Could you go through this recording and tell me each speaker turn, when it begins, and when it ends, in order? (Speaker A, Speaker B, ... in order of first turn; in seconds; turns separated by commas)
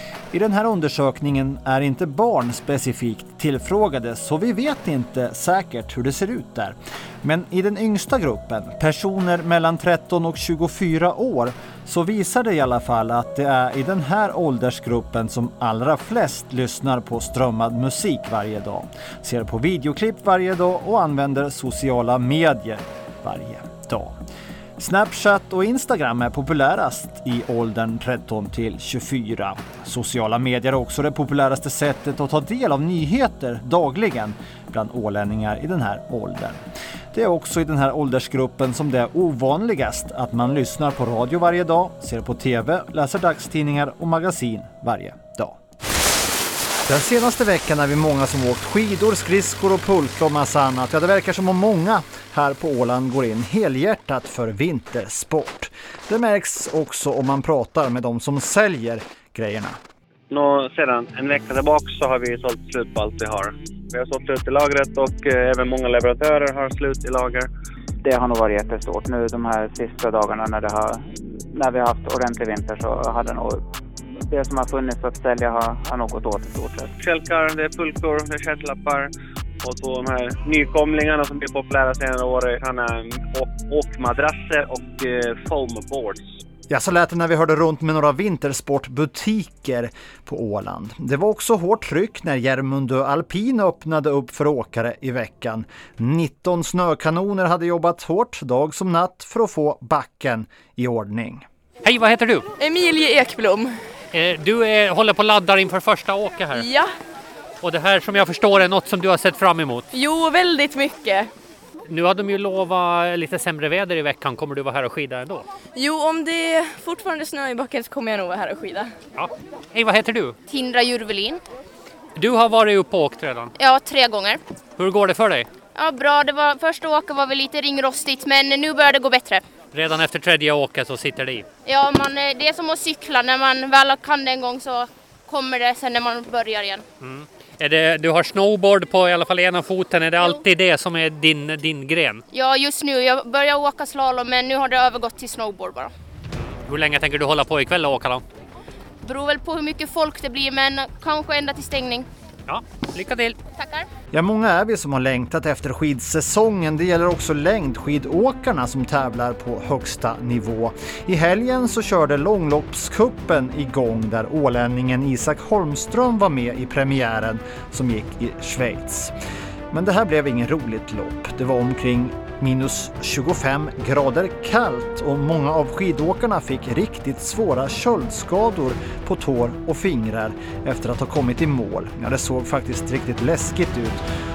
Speaker A: 0.3-24.1, Speaker A: 24.8-36.6, Speaker A: 37.1-45.6, Speaker A: 46.9-59.8, Speaker B: 60.3-67.5, Speaker C: 68.0-71.0, Speaker C: 71.5-73.6, Speaker C: 74.3-76.9, Speaker B: 77.0-79.1, Speaker B: 79.6-86.2, Speaker A: 86.7-101.5, Speaker D: 101.8-102.4, Speaker E: 102.6-103.7, Speaker D: 104.1-106.7, Speaker E: 106.5-106.9, Speaker D: 107.6-109.9, Speaker E: 109.9-111.3, Speaker D: 111.9-115.5, Speaker E: 115.7-118.9, Speaker D: 119.2-120.3, Speaker F: 120.5-121.4, Speaker D: 122.2-123.5, Speaker F: 123.6-124.4, Speaker D: 124.8-125.5, Speaker F: 125.7-129.4, Speaker D: 129.7-131.5, Speaker F: 131.7-136.8, Speaker D: 137.0-142.2, Speaker F: 142.3-145.9, Speaker D: 146.6-148.2, Speaker F: 149.0-152.1, Speaker D: 152.5-153.4, Speaker F: 153.6-153.8, Speaker A: 154.1-169.1, Speaker A: 169.7-184.0